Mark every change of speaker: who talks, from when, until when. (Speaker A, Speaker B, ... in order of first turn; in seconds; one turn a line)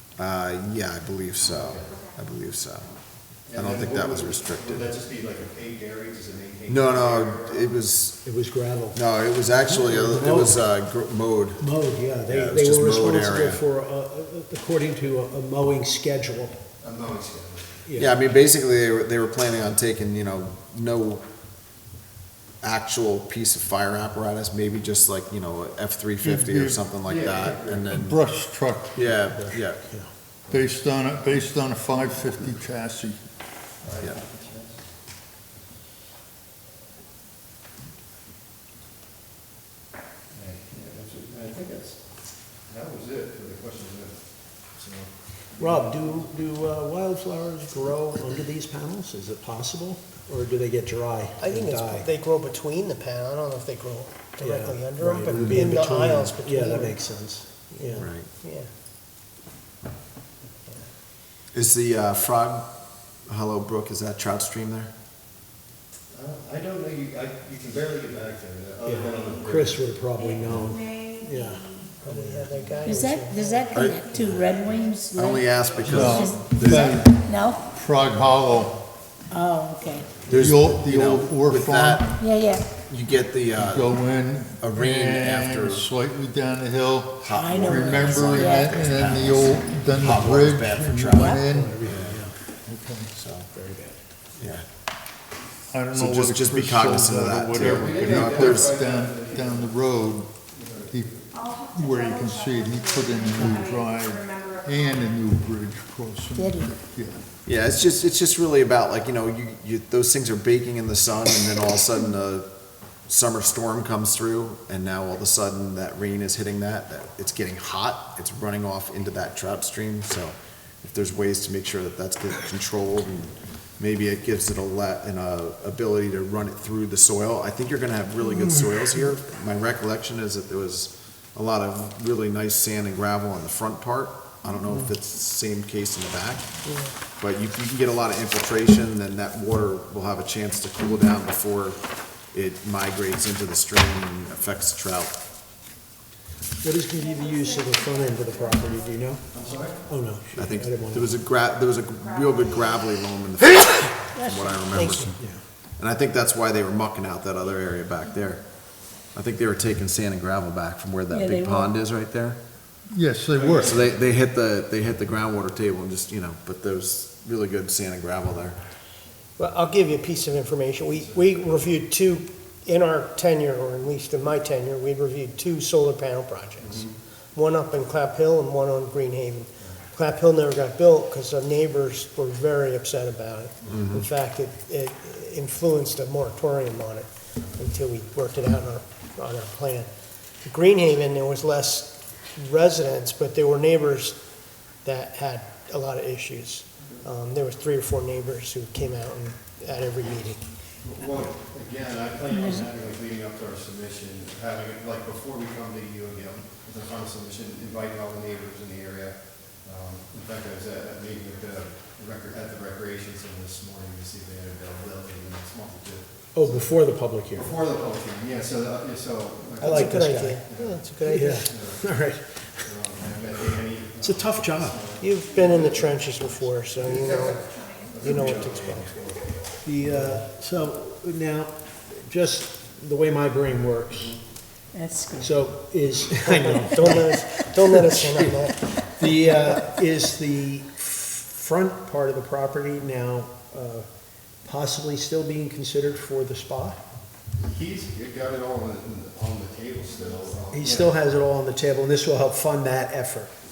Speaker A: 0.2-3.0
Speaker B: 1.5-1.9
Speaker C: 1.8-2.2
Speaker B: 3.5-7.7
Speaker A: 3.5-4.9
Speaker A: 6.7-8.2
Speaker D: 8.2-9.0
Speaker A: 8.9-11.7
Speaker D: 9.6-10.6
Speaker D: 11.6-16.6
Speaker A: 12.2-13.6
Speaker B: 16.8-17.9
Speaker D: 17.9-18.2
Speaker A: 18.0-21.2
Speaker A: 22.6-28.2
Speaker E: 26.2-26.9
Speaker B: 27.0-27.9
Speaker E: 27.9-29.0
Speaker A: 28.9-29.8
Speaker D: 29.1-30.1
Speaker E: 30.5-33.2
Speaker B: 33.8-34.8
Speaker B: 40.3-42.0
Speaker B: 42.7-44.2
Speaker B: 44.8-46.2
Speaker D: 45.6-52.1
Speaker F: 51.4-57.0
Speaker D: 54.4-58.1
Speaker A: 55.4-55.6
Speaker F: 57.8-58.7
Speaker A: 58.0-58.3
Speaker A: 61.5-62.7
Speaker A: 63.3-64.9
Speaker B: 66.1-70.0
Speaker D: 68.8-72.5
Speaker C: 69.0-69.3
Speaker C: 70.2-72.0
Speaker F: 72.0-74.3
Speaker G: 72.8-77.7
Speaker C: 73.6-77.2
Speaker A: 73.7-74.5
Speaker A: 75.1-77.1
Speaker E: 75.9-78.8
Speaker G: 79.3-80.1
Speaker E: 80.3-82.1
Speaker A: 80.3-82.2
Speaker G: 82.2-82.7
Speaker A: 82.8-83.9
Speaker E: 83.6-91.8
Speaker A: 84.6-85.9
Speaker A: 87.2-92.2
Speaker G: 87.3-89.4
Speaker D: 91.4-92.4
Speaker E: 92.7-93.1
Speaker A: 93.1-93.5
Speaker D: 93.5-94.0
Speaker A: 94.4-94.7
Speaker E: 95.7-101.1
Speaker A: 95.9-98.7
Speaker B: 97.6-99.8
Speaker B: 100.5-101.3
Speaker C: 101.3-105.4
Speaker E: 101.7-107.2
Speaker G: 106.4-106.7
Speaker A: 107.5-112.5
Speaker A: 113.1-136.5
Speaker F: 136.6-136.9
Speaker A: 137.2-145.2
Speaker D: 146.6-149.2
Speaker C: 146.9-149.8
Speaker B: 149.3-149.8
Speaker D: 149.9-151.2
Speaker A: 150.3-155.1
Speaker C: 151.9-152.8
Speaker G: 154.1-154.8
Speaker F: 154.8-155.2
Speaker E: 154.8-155.2
Speaker A: 155.8-162.4
Speaker G: 161.1-161.8
Speaker E: 162.9-163.8
Speaker B: 163.3-164.0
Speaker A: 163.6-168.6
Speaker F: 169.4-189.9
Speaker B: 170.9-171.6
Speaker B: 176.6-176.9
Speaker A: 183.7-184.0
Speaker F: 190.4-194.2
Speaker F: 194.8-200.4
Speaker B: 200.8-216.8
Speaker G: 202.3-202.7
Speaker D: 216.3-217.5
Speaker B: 217.3-221.9
Speaker F: 219.6-221.5
Speaker D: 219.6-220.4
Speaker D: 221.1-222.6
Speaker B: 222.6-230.2
Speaker D: 224.0-224.9
Speaker F: 224.9-229.1
Speaker C: 226.9-228.2
Speaker D: 229.6-234.1
Speaker B: 233.9-234.2
Speaker G: 234.7-235.3
Speaker D: 235.2-243.9
Speaker F: 236.2-238.8
Speaker D: 244.4-246.8
Speaker B: 247.4-251.0
Speaker C: 249.9-250.8
Speaker D: 250.5-253.3